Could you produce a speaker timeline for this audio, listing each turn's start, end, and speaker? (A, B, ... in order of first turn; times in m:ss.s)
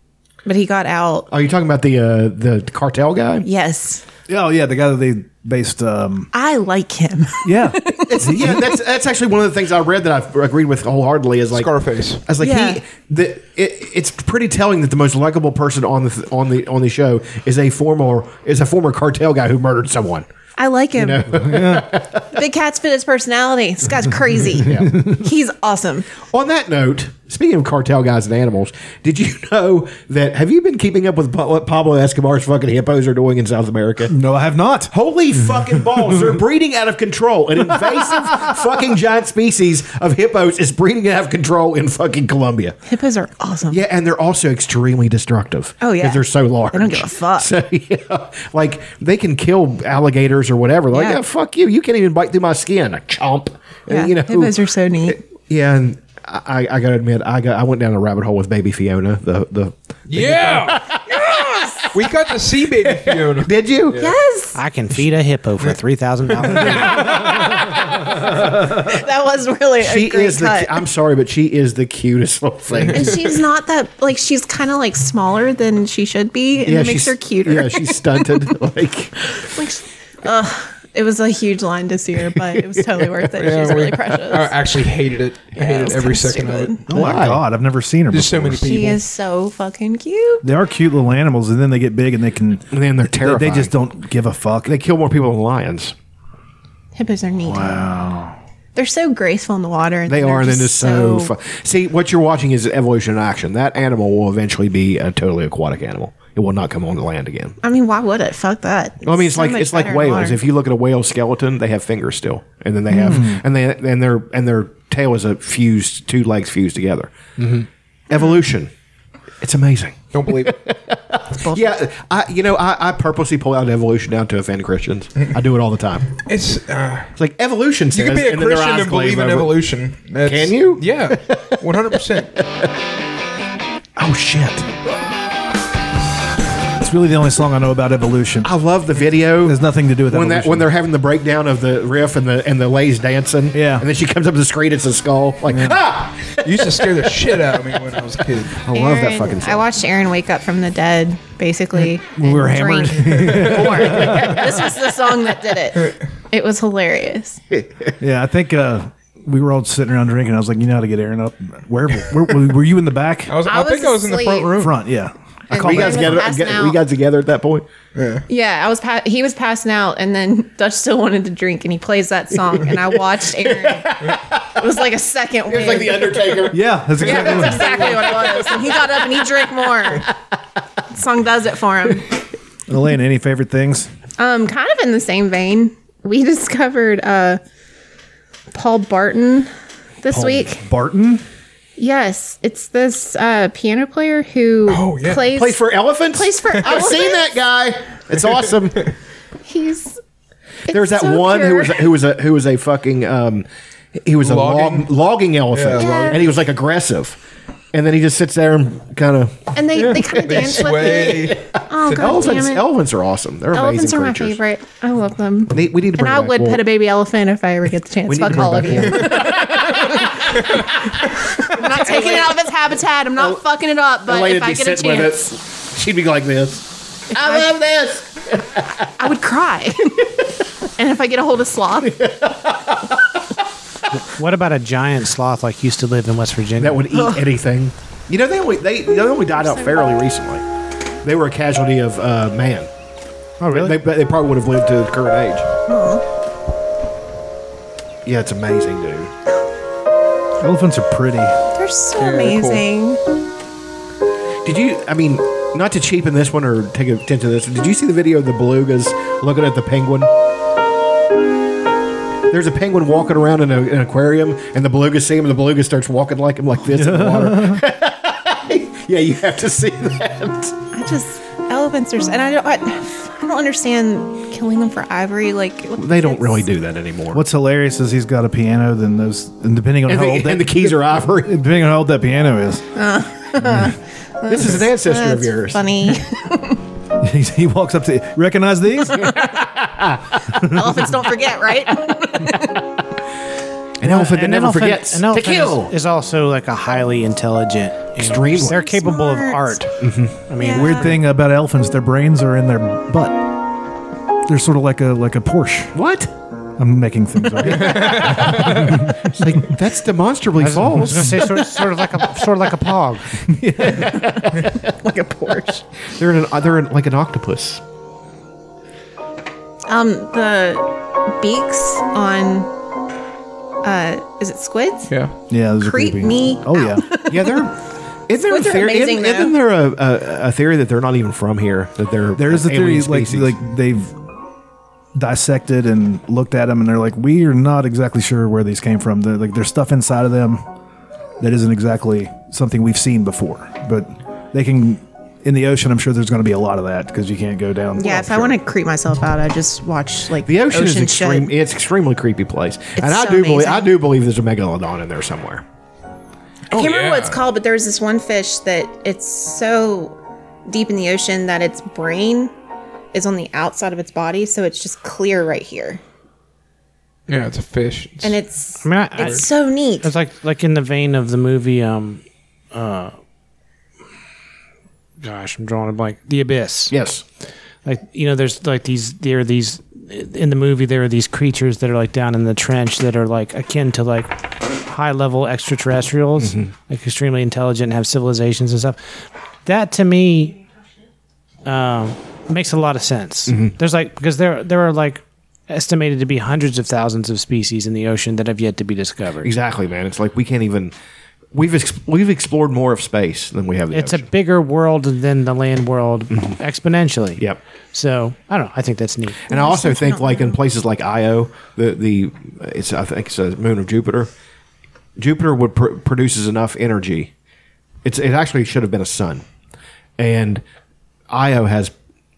0:00.4-0:01.3 A
0:01.3-0:03.4 B
0:03.4-0:04.0 A
0:04.3-0:06.3 C
0:06.3-0:08.1 A
0:07.4-0:08.7 C
0:08.1-0:11.7 B
0:11.5-0:12.2 D
0:12.2-0:20.3 B
0:12.4-0:12.8 A
0:20.6-0:21.2 A
0:20.9-0:22.3 B
0:21.4-0:21.9 C
0:22.3-0:26.1 A
0:24.6-0:25.1 B
0:26.2-0:34.1 B
0:34.1-0:34.9 C
0:34.9-0:42.8 B
0:35.9-0:36.2 C
0:37.6-0:38.5 C
0:42.9-0:43.8 A
0:43.7-1:01.8 B
0:45.8-0:47.5 A
0:50.9-0:51.2 A
0:53.9-0:55.2 A
1:00.1-1:01.1 D
1:01.8-1:04.1 D
1:02.8-1:04.1 B
1:03.9-1:04.6 A
1:04.5-1:07.3 E
1:07.0-1:10.8 A
1:09.8-1:13.2 B
1:12.7-1:13.1 D
1:12.9-1:18.4 A
1:16.6-1:19.5 B
1:19.5-1:24.5 A
1:22.3-1:23.9 B
1:23.4-1:26.8 D
1:25.6-1:26.8 A
1:26.9-1:28.8 C
1:26.9-1:27.4 B
1:28.1-1:29.0 D
1:28.6-1:30.4 A
1:30.4-1:34.7 C
1:32.7-1:33.7 B
1:34.6-1:35.9 B
1:36.9-1:37.9 A
1:37.4-1:38.4 C
1:38.7-1:41.3 A
1:40.1-1:47.6 B
1:47.6-1:50.4 A
1:49.0-1:58.7 B
1:52.9-1:53.4 C
1:58.1-1:58.4 A
1:59.4-2:06.1 B
2:00.1-2:00.5 D
2:06.2-2:07.1 D
2:07.2-2:09.5 B
2:07.9-2:12.3 D
2:10.2-2:12.7 B
2:14.0-2:14.7 B
2:16.8-2:18.5 C
2:18.4-2:26.7 B
2:19.4-2:20.7 C
2:23.5-2:23.8 C
2:25.5-2:25.8 C
2:26.4-2:28.6 D
2:28.6-2:29.7 B
2:28.7-2:37.4 A
2:32.2-2:34.5 C
2:33.1-2:34.5 B
2:37.5-2:37.9 B
2:38.0-2:43.4 C
2:43.3-2:44.7 D
2:43.4-2:44.7 A
2:44.6-2:46.3 C
2:45.5-2:47.6 B
2:45.5-2:46.8 A
2:47.9-2:48.2 D
2:48.3-2:53.9 A
2:52.6-2:54.6 B
2:54.6-2:56.4 A
2:55.5-3:00.0 B
2:56.5-2:57.8 C
2:57.0-3:00.1 A
3:00.9-3:02.1 A
3:02.7-3:03.9 C
3:04.2-3:07.4 A
3:08.5-3:10.6 A
3:10.1-3:11.2 C
3:11.8-3:17.4 A
3:14.7-3:15.2 D
3:15.3-3:18.9 B
3:19.4-3:20.0 A
3:20.7-3:21.9 A
3:20.7-3:27.2 B
3:24.2-3:24.9 D
3:25.5-3:26.2 D
3:25.7-3:26.3 A
3:27.7-3:34.4 B
3:29.5-3:32.7 A
3:29.8-3:32.5 D
3:33.5-3:40.3 A
3:35.5-3:36.6 B
3:38.0-3:42.5 B
3:41.4-3:45.3 A
3:43.1-3:43.4 B
3:44.0-3:48.9 B
3:47.1-3:47.6 A
3:49.0-3:50.1 A
3:50.8-3:52.0 A
3:51.8-3:53.0 B
3:54.2-3:56.8 E
3:56.6-4:00.4 B
3:56.9-3:57.2 A
3:59.4-3:59.9 A
4:01.0-4:02.7 B
4:03.4-4:03.8 E
4:03.5-4:05.5 B
4:05.7-4:06.0 A
4:08.0-4:09.1 B
4:10.4-4:11.4 C
4:11.5-4:13.0 A
4:12.0-4:12.6 D
4:14.4-4:20.1 B
4:22.3-4:30.6 B
4:26.6-4:27.6 C
4:30.7-4:36.4 A
4:35.8-4:37.2 B
4:37.1-4:42.6 C
4:39.9-4:41.3 B
4:42.8-4:46.6 A
4:44.3-4:46.0 B
4:47.0-4:49.2 C
4:48.9-4:49.4 A
4:49.7-4:50.0 B
4:50.3-4:52.6 A
4:53.8-4:55.7 B
4:53.8-4:59.7 E
4:58.0-4:58.7 B
4:58.7-4:59.6 A
4:59.8-5:00.2 B
5:00.3-5:01.0 E
5:00.4-5:00.9 A
5:00.6-5:03.3 C
5:04.2-5:05.7 C
5:05.7-5:06.1 B
5:06.6-5:09.4 C
5:07.5-5:08.8 D
5:07.7-5:11.3 B
5:10.4-5:13.1 E
5:13.2-5:14.2 C
5:13.6-5:15.6 A
5:15.9-5:17.6 B
5:19.7-5:22.5 A
5:23.6-5:24.9 A
5:25.3-5:26.8 C
5:25.6-5:27.5 A
5:27.1-5:27.5 B
5:28.1-5:33.4 B
5:28.2-5:29.4 A
5:32.2-5:34.0 C
5:34.9-5:40.4 C
5:41.2-5:48.4 C
5:47.8-5:51.3 A
5:50.2-5:55.4 B
5:52.8-5:53.7 A
5:56.5-5:57.2 D
5:56.5-6:02.3 A
6:02.9-6:05.8 A
6:07.1-6:08.2 D
6:08.0-6:09.9 A
6:08.6-6:09.3 E
6:09.8-6:12.0 E
6:12.5-6:12.9 E
6:15.0-6:16.7 E
6:16.7-6:17.0 B
6:17.6-6:28.8 E
6:26.2-6:26.5 B
6:29.4-6:30.4 E
6:31.4-6:39.3 E
6:33.3-6:33.5 B
6:39.2-6:40.7 B
6:41.3-6:44.0 B
6:43.7-6:49.2 E
6:49.3-6:50.4 A
6:49.3-6:54.1 B
6:55.0-6:57.1 B
6:57.8-6:59.2 B
7:00.0-7:00.4 B
7:01.1-7:01.7 B